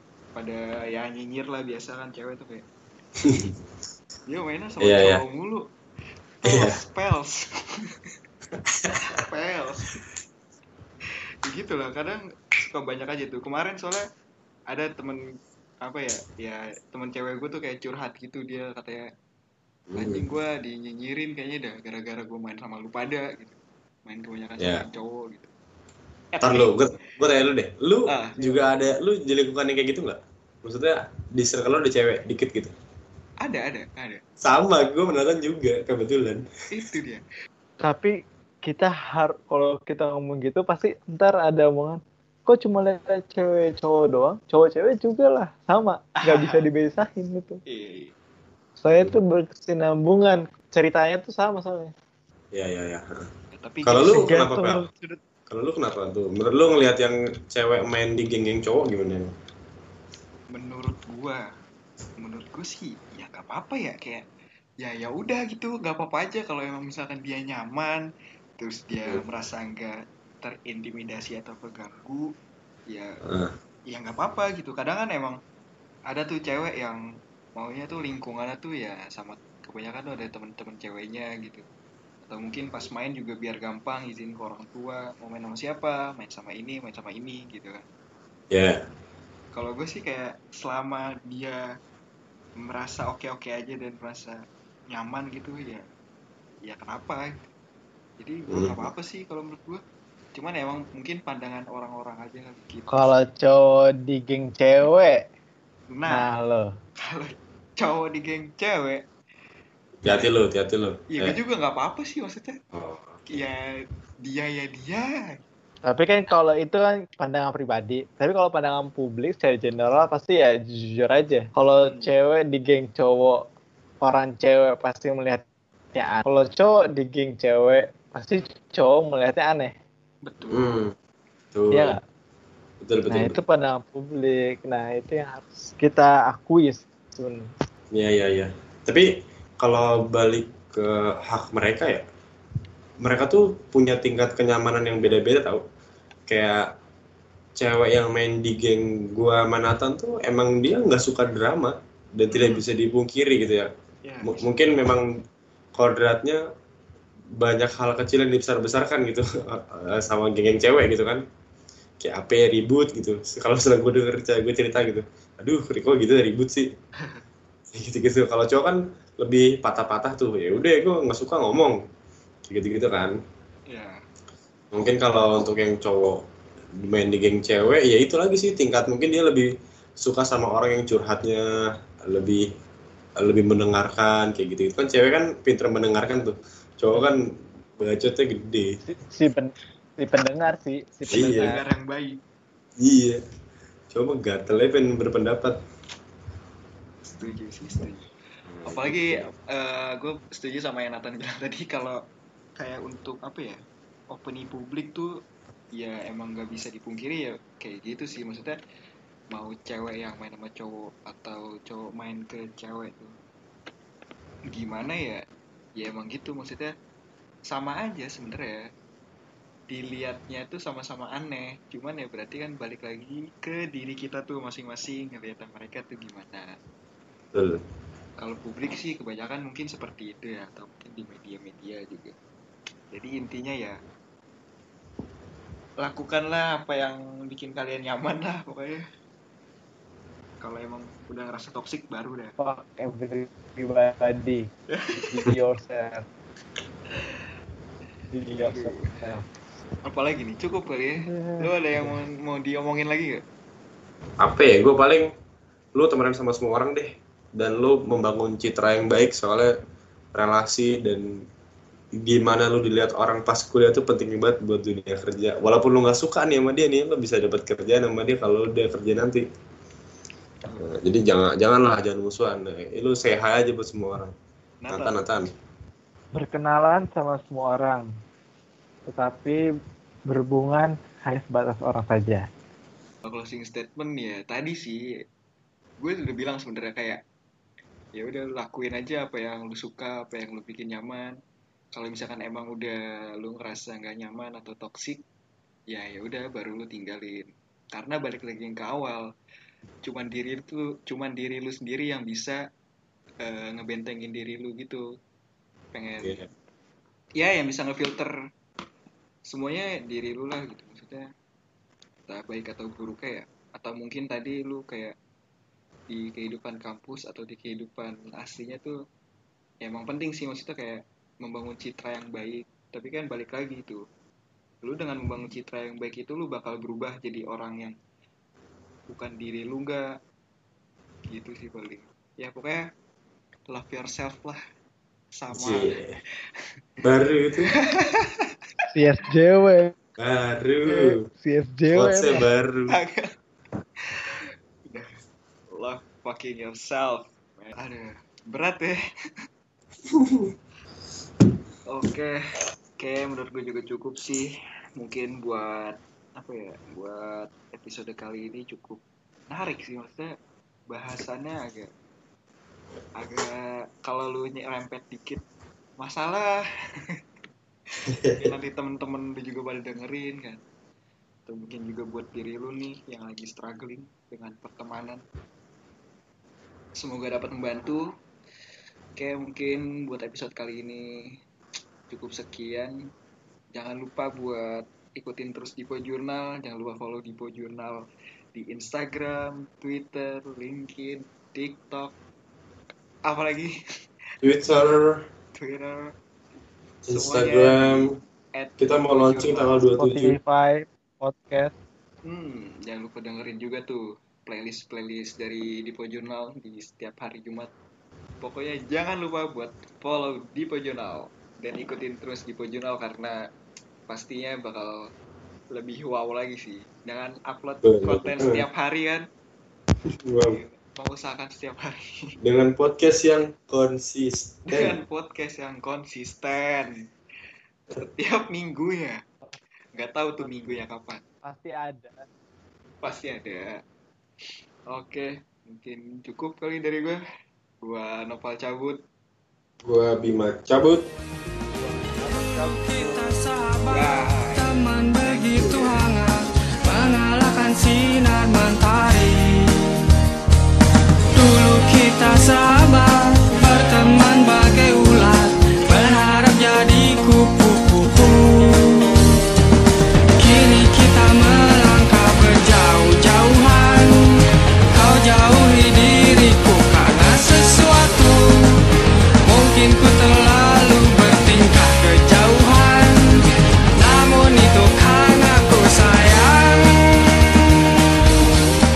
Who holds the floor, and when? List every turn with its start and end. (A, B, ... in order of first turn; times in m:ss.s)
0:00.4-0:02.6 A
0:03.2-0:03.6 B
0:04.3-0:05.7 A
0:04.8-0:05.2 B
0:06.4-0:08.0 A
0:06.5-0:06.8 B
0:08.5-0:09.2 B
0:09.0-0:10.0 A
0:11.4-0:14.1 A
0:14.7-0:15.2 A
0:15.8-0:19.1 A
0:19.9-0:20.3 B
0:20.0-0:23.6 A
0:24.1-0:25.5 A
0:24.6-0:24.8 B
0:26.3-0:26.9 A
0:26.4-0:32.7 B
0:28.1-0:28.6 A
0:33.4-0:34.2 A
0:34.4-0:36.5 B
0:36.7-0:37.2 A
0:37.8-0:47.6 C
0:46.2-0:46.6 A
0:47.7-0:48.1 A
0:48.8-0:51.9 C
0:52.5-0:53.3 B
0:53.5-0:54.5 A
0:53.8-0:54.8 B
0:54.0-0:55.2 C
0:55.5-0:59.3 B
1:00.5-1:01.4 A
1:02.2-1:04.2 A
1:04.8-1:08.1 A
1:08.6-1:12.3 A
1:12.9-1:13.2 A
1:13.2-1:13.6 B
1:13.9-1:15.4 A
1:16.1-1:17.0 A
1:17.6-1:21.6 A
1:22.2-1:27.9 A
1:28.5-1:28.8 B
1:29.5-1:31.6 A
1:32.6-1:34.4 A
1:34.9-1:35.8 A
1:36.6-1:37.3 A
1:38.2-1:39.8 A
1:38.5-1:38.9 B
1:40.4-1:43.1 A
1:42.9-1:45.2 C
1:45.9-1:46.3 A
1:46.1-1:46.7 C
1:47.0-1:49.0 A
1:50.0-1:50.3 A
1:50.0-1:51.4 B
1:51.1-1:52.6 A
1:52.7-1:53.5 B
1:53.3-1:53.7 A
1:54.2-1:55.4 A
1:55.8-2:03.4 C
2:01.8-2:02.1 A
2:04.0-2:05.4 C
2:06.0-2:09.8 C
2:10.2-2:10.7 A
2:10.5-2:11.0 B
2:11.5-2:12.0 B
2:11.7-2:12.0 C
2:12.8-2:13.4 B
2:13.1-2:17.5 C
2:17.9-2:19.1 B
2:19.6-2:22.0 B
2:23.0-2:25.6 B
2:26.3-2:26.7 B
2:27.6-2:33.7 B
2:32.3-2:32.6 A
2:34.0-2:34.8 A
2:34.2-2:35.1 B
2:35.8-2:36.4 B
2:37.4-2:41.2 B
2:42.0-2:46.7 B
2:47.7-2:51.8 B
2:52.5-2:53.2 B
2:53.7-2:54.0 A
2:54.7-2:56.2 B
2:56.8-2:59.5 B
3:00.0-3:01.5 B
3:02.1-3:02.5 B
3:03.2-3:07.2 B
3:07.8-3:08.8 B
3:08.9-3:11.6 C
3:11.1-3:11.6 B
3:11.1-3:12.2 A
3:12.8-3:13.2 B
3:13.9-3:15.6 B
3:17.1-3:18.0 A
3:18.5-3:19.3 B
3:18.7-3:22.0 A
3:22.6-3:23.6 A
3:24.1-3:25.1 A
3:25.8-3:28.6 A
3:29.3-3:33.1 A
3:34.5-3:35.2 A
3:35.8-3:36.7 A
3:37.5-3:38.7 A
3:39.7-3:46.6 A
3:47.3-3:47.6 B
3:48.2-3:52.2 A
3:52.9-3:53.8 A
3:55.8-3:58.8 A
4:00.4-4:02.4 A
4:02.4-4:06.1 C
4:04.7-4:05.3 A
4:06.9-4:07.2 A
4:08.1-4:09.3 C
4:08.4-4:09.0 A
4:09.8-4:13.2 A
4:11.0-4:12.0 C
4:14.2-4:15.1 B
4:15.8-4:19.5 B
4:20.1-4:21.1 B
4:22.0-4:29.2 B
4:30.6-4:34.1 B
4:34.6-4:35.0 A
4:34.7-4:35.3 B
4:36.1-4:37.9 C
4:38.9-4:39.4 C
4:40.1-4:42.3 C
4:43.0-4:44.8 A
4:45.8-4:47.0 A
4:48.0-4:51.2 A
4:51.7-4:55.0 A
4:55.7-4:59.1 A
4:59.8-5:02.4 A
5:03.2-5:04.8 A
5:05.7-5:06.2 A
5:06.0-5:06.3 B
5:07.2-5:08.1 A
5:09.3-5:11.1 A
5:12.1-5:14.9 A
5:15.9-5:18.8 A
5:19.6-5:23.8 A
5:24.6-5:27.8 A
5:28.9-5:29.9 A
5:31.1-5:32.6 A
5:33.5-5:34.4 A
5:35.2-5:35.8 A
5:35.3-5:36.0 B
5:36.8-5:37.5 B
5:37.4-5:38.3 A
5:38.7-5:39.7 C
5:40.0-5:41.0 B
5:40.7-5:42.2 C
5:41.7-5:42.8 B
5:42.7-5:43.1 A
5:43.8-5:45.0 A
5:45.6-5:48.8 A
5:49.9-5:50.3 B
5:51.7-5:52.2 A
5:52.8-6:00.1 A
6:00.7-6:01.7 A
6:03.0-6:05.2 A
6:05.8-6:07.0 A
6:07.8-6:10.4 A
6:07.9-6:08.2 B
6:11.3-6:15.0 A
6:16.8-6:17.9 A
6:19.0-6:21.1 A
6:21.9-6:22.8 A
6:23.5-6:31.9 A
6:33.0-6:33.6 A
6:34.2-6:35.1 B
6:35.4-6:35.9 A
6:36.8-6:39.6 A
6:36.9-6:38.0 B
6:38.6-6:40.2 B
6:39.8-6:41.6 C
6:42.0-6:47.5 A
6:48.2-6:53.2 A
6:53.9-6:54.8 A
6:55.5-6:59.1 A
6:57.6-6:58.4 B
6:59.9-7:00.4 B
7:00.2-7:02.1 A
7:02.2-7:04.8 B
7:04.5-7:06.9 A
7:07.8-7:09.0 A
7:09.8-7:11.0 A
7:11.2-7:12.1 C
7:12.8-7:13.6 A
7:14.7-7:17.0 A
7:17.6-7:18.8 A
7:19.6-7:20.9 B
7:21.6-7:23.0 C
7:22.0-7:29.9 D
7:23.7-7:25.9 A
7:25.4-7:25.8 B
7:31.1-7:39.2 D
7:40.2-7:48.7 D
7:49.2-7:53.2 D
7:53.8-7:57.9 D